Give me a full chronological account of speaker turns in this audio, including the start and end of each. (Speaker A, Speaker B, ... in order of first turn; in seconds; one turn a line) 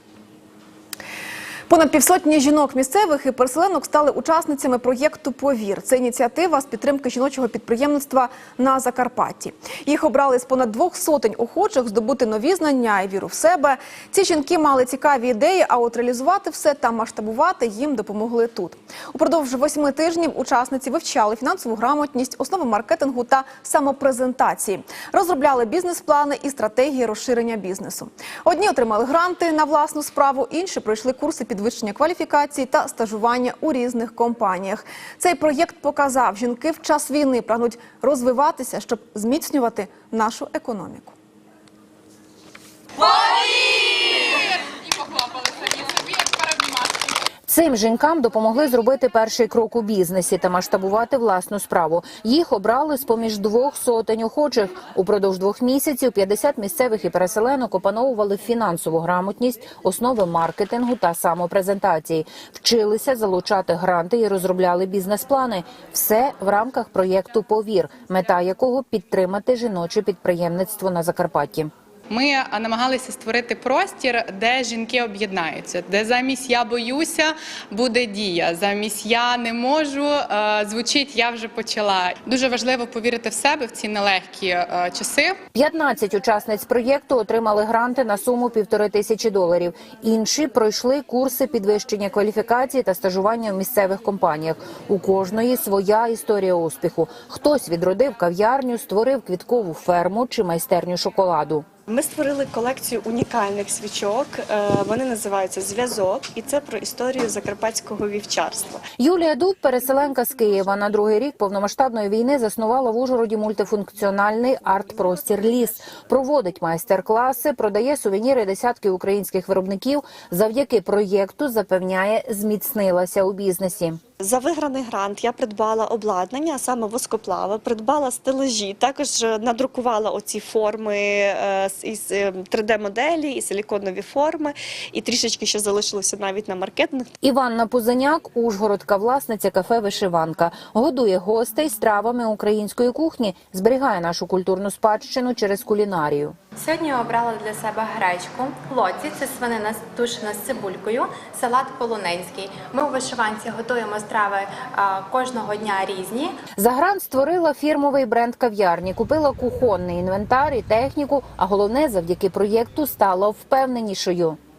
Speaker A: 1.7-41.1
Speaker B: 43.7-44.2
Speaker C: 47.5-71.7
Speaker B: 72.1-85.4
Speaker C: 85.5-101.7
Speaker D: 101.9-108.8
Speaker C: 109.0-124.0
Speaker D: 124.2-137.1
Speaker C: 137.2-146.4
Speaker E: 146.6-156.3
Speaker C: 156.6-164.4